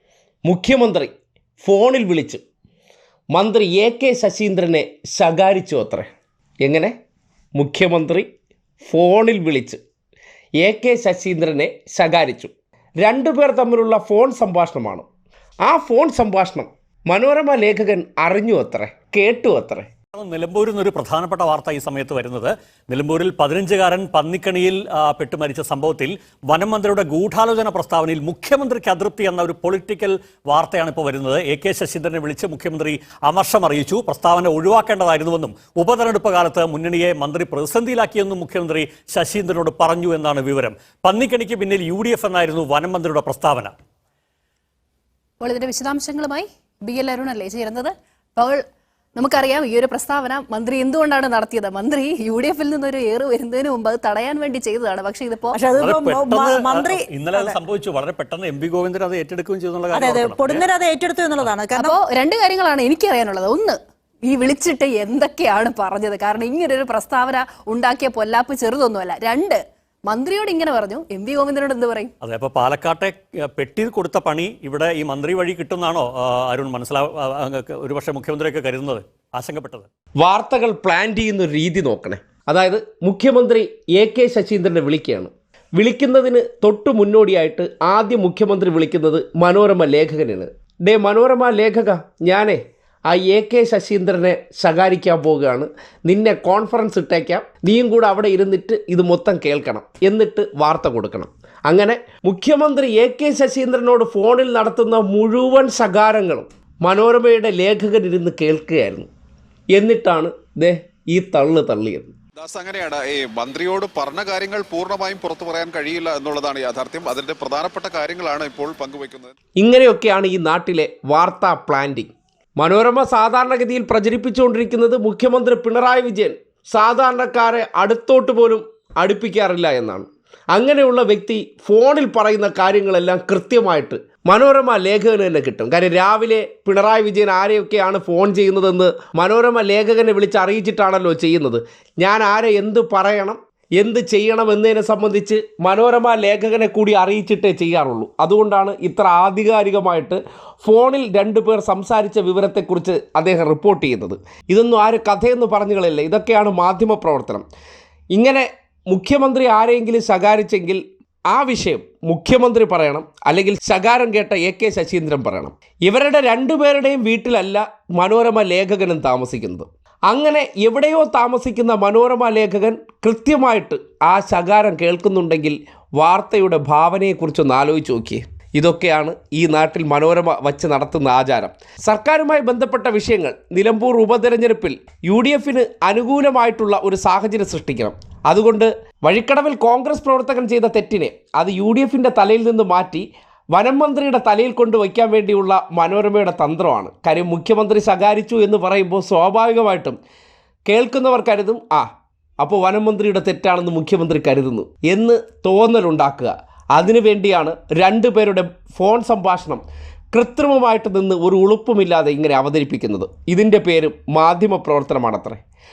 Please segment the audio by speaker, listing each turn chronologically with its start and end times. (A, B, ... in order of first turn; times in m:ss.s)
0:00.4-0:02.4 A
0:03.3-0:06.1 A
0:06.6-0:06.9 A
0:07.6-0:08.3 A
0:08.8-0:09.8 A
0:10.6-0:15.0 A
0:15.6-0:19.9 A
0:20.1-0:43.7 B
0:45.4-0:48.6 C
0:49.2-0:55.6 C
0:55.5-0:57.6 D
0:55.7-1:00.7 B
0:59.9-1:02.0 D
1:01.7-1:12.1 C
1:12.2-1:19.9 B
1:20.2-1:49.1 A
1:49.7-1:52.1 A
1:52.4-1:59.3 E
1:59.6-2:37.4 A
2:38.1-3:20.0 A
3:20.6-3:21.9 A
3:22.4-3:35.4 A